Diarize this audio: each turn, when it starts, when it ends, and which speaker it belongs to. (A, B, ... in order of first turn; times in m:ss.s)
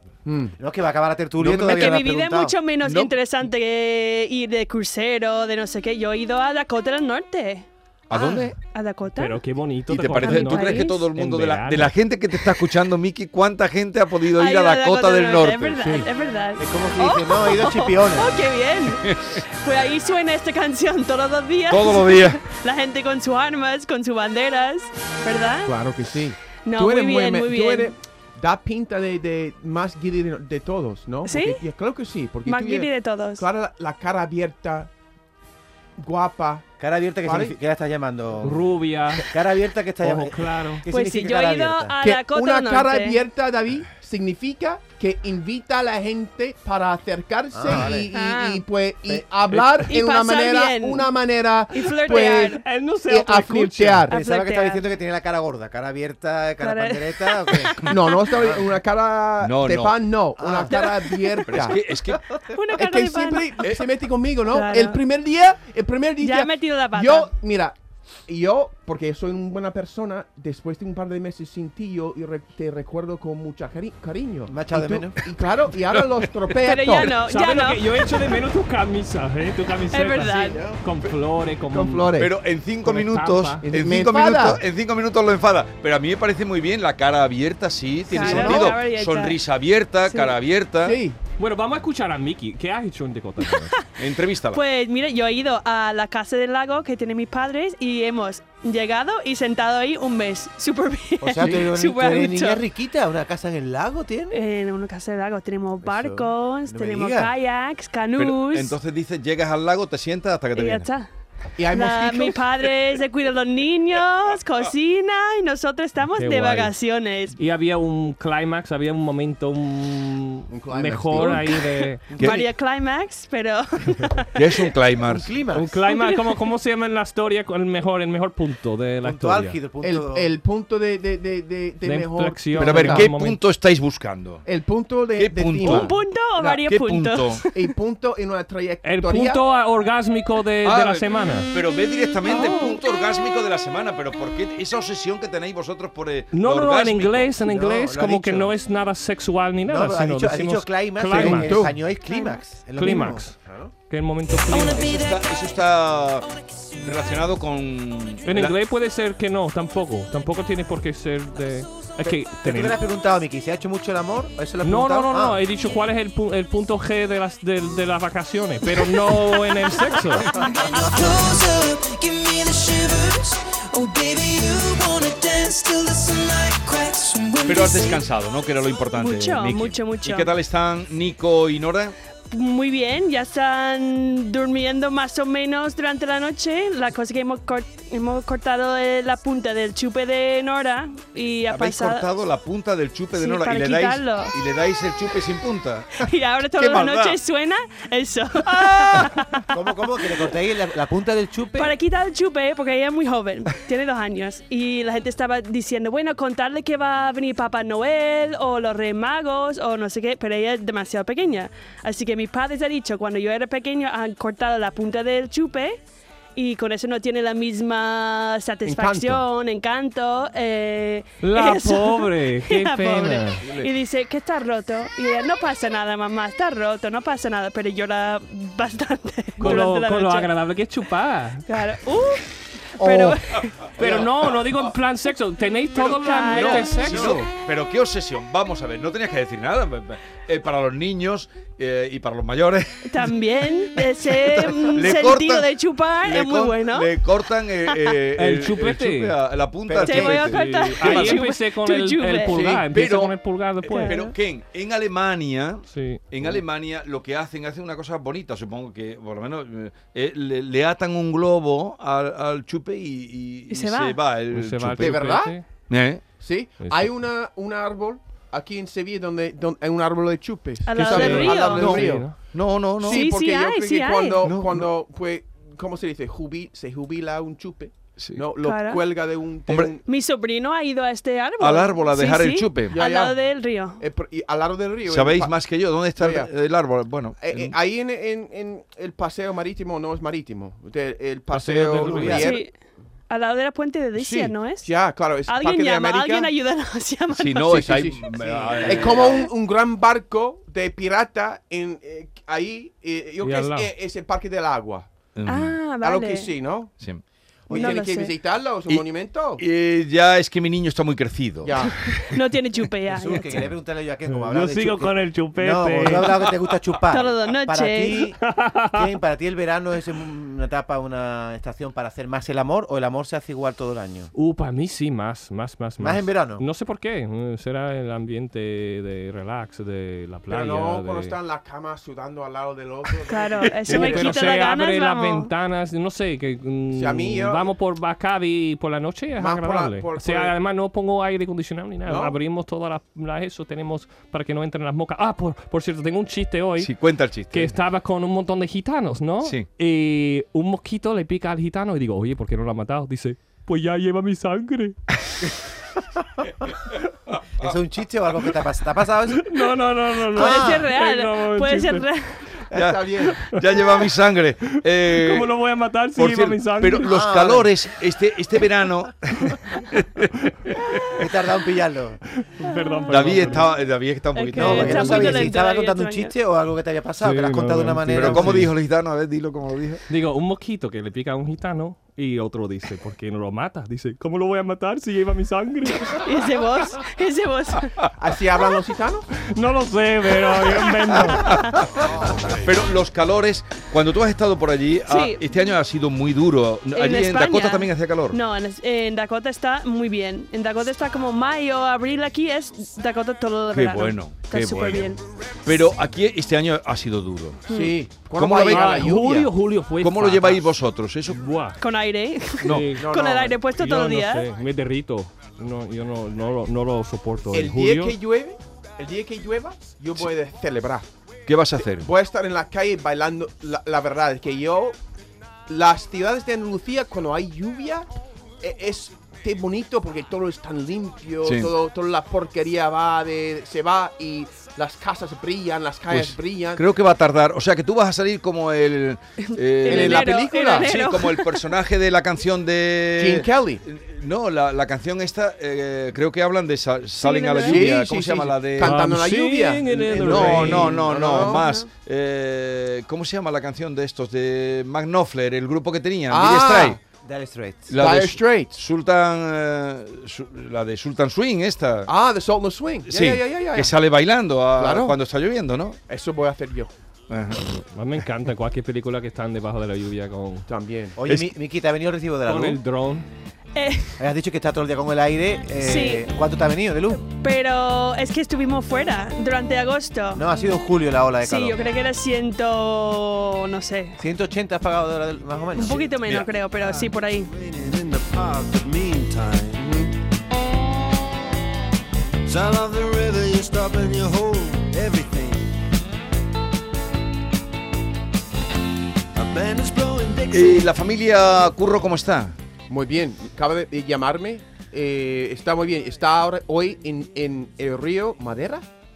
0:00.2-0:00.5 A
0:00.6-0:02.6 B
0:01.4-0:02.0 C
0:01.6-0:09.4 D
0:02.8-0:03.1 C
0:08.1-0:08.5 C
0:09.1-0:11.9 E
0:09.9-0:15.8 C
0:10.2-0:11.0 D
0:14.3-0:25.8 D
0:16.6-0:18.3 B
0:19.0-0:19.4 C
0:21.7-0:22.4 C
0:25.6-0:34.9 A
0:26.6-0:27.9 D
0:31.2-0:31.6 D
0:32.4-0:33.4 D
0:36.0-0:36.7 A
0:36.8-0:41.9 B
0:37.2-0:37.6 A
0:38.4-0:39.3 E
0:40.0-0:40.8 E
0:40.9-0:43.2 D
0:42.0-0:54.1 A
0:47.5-0:48.1 B
0:47.8-0:48.6 D
0:49.5-0:49.8 C
0:49.9-0:51.1 D
0:51.7-0:52.6 D
0:52.3-0:54.1 E
0:54.1-0:54.8 D
0:54.1-0:58.6 B
0:56.6-0:58.1 D
0:57.8-1:01.8 A
0:59.4-1:00.0 C
1:00.4-1:00.8 B
1:00.7-1:01.7 D
1:01.5-1:02.2 C
1:02.5-1:03.7 D
1:02.8-1:07.8 A
1:04.5-1:05.0 D
1:06.2-1:07.3 D
1:08.3-1:17.1 A
1:14.5-1:15.2 B
1:16.6-1:18.2 D
1:17.2-1:22.1 E
1:19.9-1:20.6 D
1:21.7-1:22.3 A
1:22.2-1:31.0 C
1:22.8-1:23.6 E
1:23.6-1:24.6 A
1:28.1-1:29.4 D
1:28.2-1:28.7 A
1:30.1-1:30.3 D
1:30.8-1:31.2 A
1:31.4-1:33.7 E
1:34.0-1:34.6 C
1:34.5-1:42.6 D
1:41.2-1:44.4 B
1:41.4-1:41.7 A
1:44.3-1:48.8 D
1:45.8-1:47.3 B
1:48.2-1:50.9 C
1:50.5-1:51.1 D
1:51.6-1:52.4 A
1:51.7-1:57.4 D
1:56.1-1:56.7 E
1:57.4-2:02.0 E
2:00.5-2:01.6 A
2:01.2-2:04.7 D
2:02.2-2:02.4 C
2:04.3-2:05.3 C
2:05.0-2:05.8 B
2:05.5-2:09.6 E
2:05.9-2:06.3 D
2:09.0-2:10.3 B
2:09.8-2:13.1 A
2:11.8-2:13.4 E
2:12.5-2:14.4 C
2:14.4-2:16.5 A
2:15.2-2:17.4 C
2:15.6-2:17.7 D
2:17.5-2:19.4 A
2:18.8-2:21.5 E
2:20.6-2:27.4 C
2:22.2-2:22.8 D
2:26.3-2:31.7 E
2:27.4-2:28.5 B
2:29.7-2:33.7 B
2:31.1-2:31.8 A
2:32.8-2:33.3 E
2:33.9-2:35.0 E
2:34.5-2:38.6 C
2:38.2-2:42.8 E
2:42.4-2:45.4 B
2:44.6-2:50.4 E
2:50.8-2:58.0 F
2:57.4-3:02.0 C
2:59.0-3:00.3 D
3:02.3-3:12.1 D
3:11.5-3:17.2 C
3:13.1-3:14.3 D
3:16.0-3:19.5 D
3:19.5-3:21.7 B
3:21.6-3:35.8 D
3:36.4-3:50.3 D
3:38.6-3:39.2 A
3:41.2-3:43.4 E
3:43.4-3:43.7 A
3:49.4-3:51.4 E
3:51.5-3:53.7 D
3:53.8-3:57.2 E
3:55.7-3:57.0 D
3:56.3-4:03.1 C
4:02.8-4:07.0 D
4:04.3-4:05.5 C
4:06.0-4:11.2 C
4:07.6-4:07.9 D
4:08.1-4:09.1 E
4:09.7-4:10.4 B
4:09.9-4:12.4 D
4:10.2-4:14.0 E
4:12.3-4:12.6 A
4:12.7-4:25.1 C
4:13.7-4:14.1 D
4:15.7-4:16.0 E
4:23.5-4:24.0 D
4:24.3-4:25.4 E
4:24.8-4:25.4 A
4:25.7-4:26.0 C
4:26.2-4:32.2 A
4:26.6-4:26.9 E
4:30.6-4:31.8 D
4:30.8-4:32.1 E
4:30.9-4:33.1 C
4:32.8-4:39.8 A
4:32.9-4:34.2 D
4:34.2-4:34.7 C
4:38.0-4:38.2 C
4:38.4-4:38.8 D
4:39.5-4:39.7 C
4:39.8-4:43.8 D
4:41.4-4:42.7 C
4:42.7-4:43.1 A
4:43.8-4:45.4 A
4:44.8-4:47.5 C
4:45.9-4:46.3 A
4:47.2-4:52.5 A
4:51.4-4:52.2 E
4:51.7-4:52.3 B
4:51.8-4:52.2 C
4:52.2-4:52.5 D
4:53.1-4:54.7 D
4:54.0-4:56.3 A
4:55.3-4:57.6 D
4:57.1-4:59.3 C
4:57.4-5:04.9 A
4:58.7-4:59.0 B
5:03.2-5:03.7 E
5:05.1-5:05.6 C
5:05.2-5:06.3 D
5:05.8-5:06.7 A
5:07.5-5:07.8 B
5:07.5-5:09.4 A
5:07.5-5:08.1 D
5:09.4-5:12.0 C
5:11.4-5:11.9 A
5:11.9-5:13.5 D
5:12.9-5:24.1 B
5:14.1-5:16.3 E
5:16.9-5:18.0 D
5:18.2-5:18.8 E
5:24.1-5:31.2 E
5:25.8-5:26.4 B
5:30.3-5:34.4 A
5:33.1-5:35.3 D
5:33.7-5:46.7 E
5:36.7-5:37.5 A
5:39.2-5:40.3 A
5:41.9-5:42.2 A
5:46.6-5:47.6 C
5:47.3-5:54.8 E
5:57.4-5:59.3 B
5:59.2-6:01.8 E
6:00.1-6:02.2 D
6:00.1-6:00.7 B
6:02.5-6:03.2 A
6:02.5-6:05.3 C
6:03.2-6:03.7 E
6:04.8-6:07.0 E
6:05.9-6:10.5 C
6:06.9-6:07.5 B
6:10.9-6:12.0 B
6:12.2-6:13.5 E
6:12.5-6:12.8 D
6:12.9-6:15.2 C
6:14.1-6:16.1 D
6:14.4-6:18.5 B
6:17.0-6:18.5 E
6:17.9-6:19.8 C
6:19.9-6:26.0 E
6:25.8-6:27.7 D
6:28.0-6:29.1 A
6:29.3-6:31.4 E
6:30.6-6:31.6 D
6:31.1-6:38.2 C
6:34.9-6:35.2 D
6:36.7-6:45.0 D
6:43.5-6:44.9 C
6:45.4-6:47.4 C
6:47.5-6:47.8 D
6:47.5-6:49.3 A
6:48.1-6:48.9 C
6:48.4-6:50.5 E
6:49.8-6:51.2 C
6:51.1-6:51.6 E
6:51.6-6:54.2 D
6:52.4-6:52.7 C
6:52.4-6:52.9 E
6:52.8-6:53.4 A
6:53.5-6:58.0 E
6:57.3-7:00.9 A
7:01.3-7:01.9 C
7:01.6-7:04.8 A
7:05.5-7:07.9 A
7:08.4-7:16.6 A
7:11.2-7:11.5 C
7:15.9-7:28.8 C
7:19.2-7:21.5 D
7:19.6-7:20.8 A
7:23.0-7:23.6 A
7:27.0-7:27.7 D
7:27.4-7:31.4 A
7:28.6-7:30.8 E
7:30.0-7:36.8 C
7:31.2-7:31.7 D
7:36.1-7:36.8 A
7:37.0-7:37.7 B
7:37.7-7:41.9 C
7:37.8-7:38.6 A
7:41.9-7:43.8 A
7:42.9-7:45.8 C
7:44.6-7:45.0 A
7:45.9-7:46.7 A
7:47.1-7:47.5 C
7:47.7-7:50.5 E
7:50.5-7:51.0 A
7:51.0-7:52.6 B
7:52.2-7:53.0 E
7:53.5-7:54.0 D
7:54.0-7:57.0 B
7:55.6-7:56.1 D
7:57.2-8:00.3 D
8:00.1-8:01.6 B
8:01.2-8:04.0 D
8:04.0-8:05.9 B
8:05.5-8:07.3 D
8:06.7-8:09.8 G
8:09.6-8:09.9 A
8:12.2-8:15.6 G
8:19.1-8:20.7 G
8:20.3-8:22.4 C
8:22.7-8:28.6 A